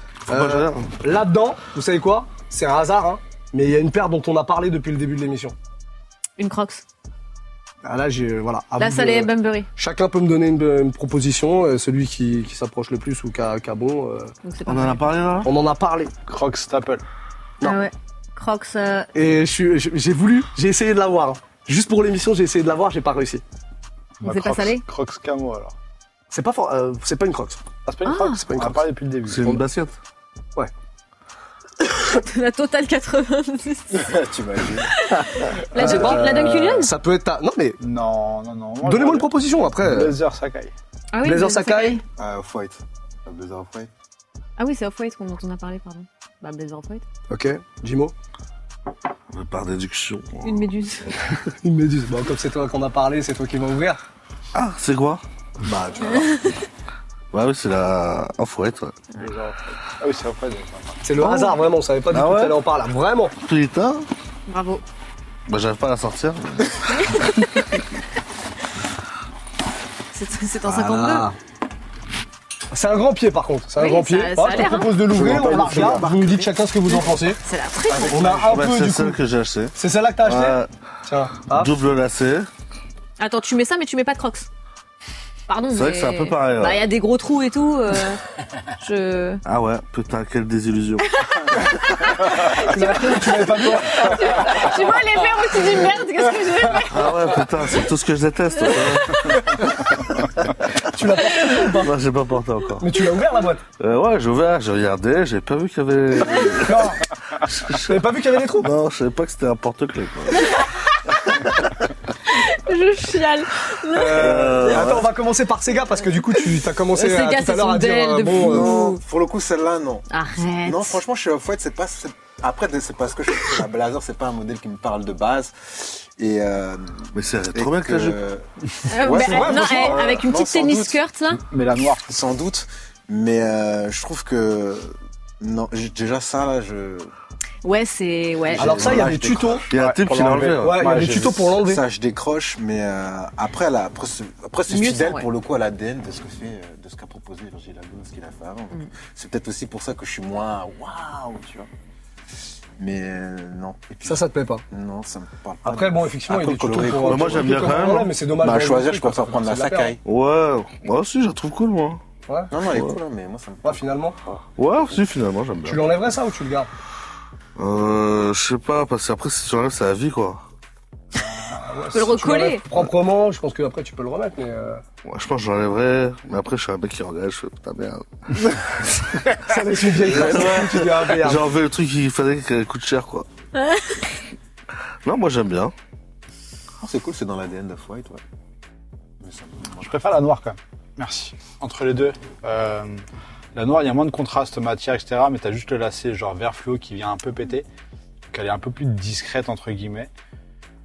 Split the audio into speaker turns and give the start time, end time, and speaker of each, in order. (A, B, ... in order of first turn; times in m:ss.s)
0:00.3-0:01.0 A
0:00.3-0:05.5 B
0:06.4-0:06.8 C
0:07.8-0:14.3 B
0:08.8-0:09.7 C
0:14.4-0:15.0 C
0:14.6-0:15.5 A
0:15.4-0:16.1 B
0:16.3-0:17.0 D
0:17.6-0:19.1 C
0:19.1-0:23.4 B
0:24.2-0:25.7 D
0:24.2-0:24.8 C
0:26.3-0:27.6 B
0:27.8-0:29.6 D
0:28.0-0:28.4 C
0:28.4-0:28.8 B
0:29.2-0:30.0 A
0:31.9-0:34.2 C
0:33.9-0:35.0 E
0:34.8-0:36.9 C
0:35.7-0:37.8 B
0:37.8-0:40.7 D
0:38.8-0:40.1 B
0:41.1-0:42.0 C
0:41.2-0:42.0 B
0:42.2-0:43.9 E
0:44.6-0:47.0 C
0:47.3-0:48.1 B
0:49.3-0:50.7 A
0:50.4-0:51.1 C
0:51.6-0:54.0 B
0:54.5-0:55.2 A
0:55.6-0:56.3 B
0:57.3-0:59.0 A
0:59.2-1:01.0 D
1:01.0-1:03.3 B
1:01.2-1:01.5 A
1:02.1-1:02.6 A
1:03.4-1:04.1 A
1:04.5-1:04.8 C
1:05.5-1:07.3 A
1:07.0-1:07.3 C
1:10.1-1:11.3 C
1:10.6-1:11.4 B
1:12.7-1:17.4 B
1:13.8-1:15.3 C
1:15.0-1:16.5 E
1:17.3-1:18.3 C
1:17.9-1:18.6 E
1:18.1-1:19.2 B
1:18.3-1:20.7 A
1:19.8-1:21.7 B
1:21.5-1:22.5 A
1:23.2-1:24.5 C
1:25.5-1:28.2 C
1:25.7-1:26.9 A
1:28.8-1:29.4 C
1:29.4-1:31.1 A
1:31.1-1:37.4 C
1:32.5-1:34.6 B
1:36.9-1:39.4 A
1:40.8-1:42.0 B
1:41.6-1:42.9 A
1:42.8-1:43.6 B
1:43.8-1:50.6 A
1:46.5-1:47.0 B
1:47.7-1:48.7 B
1:50.4-1:50.6 C
1:52.3-1:54.7 C
1:53.9-1:58.8 B
1:54.1-1:55.1 A
1:56.9-1:59.0 C
1:58.3-2:11.0 E
2:00.1-2:01.0 C
2:07.1-2:08.2 A
2:08.9-2:11.4 C
2:09.1-2:10.0 B
2:11.4-2:12.1 D
2:12.0-2:17.1 E
2:17.6-2:19.0 C
2:18.5-2:19.7 E
2:18.6-2:19.6 B
2:19.7-2:20.8 A
2:19.7-2:21.6 D
2:20.6-2:21.8 B
2:21.6-2:31.7 E
2:24.7-2:25.3 C
2:32.8-2:37.8 E
2:34.0-2:34.6 B
2:35.6-2:39.9 B
2:37.0-2:38.1 A
2:38.4-2:40.0 E
2:40.0-2:42.0 A
2:42.3-2:42.5 B
2:42.5-2:44.4 E
2:42.6-2:43.0 A
2:43.6-2:44.2 B
2:44.6-2:45.9 A
2:45.6-2:46.7 B
2:47.6-2:50.4 A
2:51.4-2:54.8 B
2:51.9-2:52.6 C
2:55.0-2:59.2 A
2:59.4-3:01.5 B
3:00.0-3:03.3 A
3:05.0-3:05.7 A
3:06.8-3:08.2 E
3:09.2-3:09.9 E
3:09.8-3:13.0 D
3:13.5-3:17.7 D
3:18.3-3:20.1 D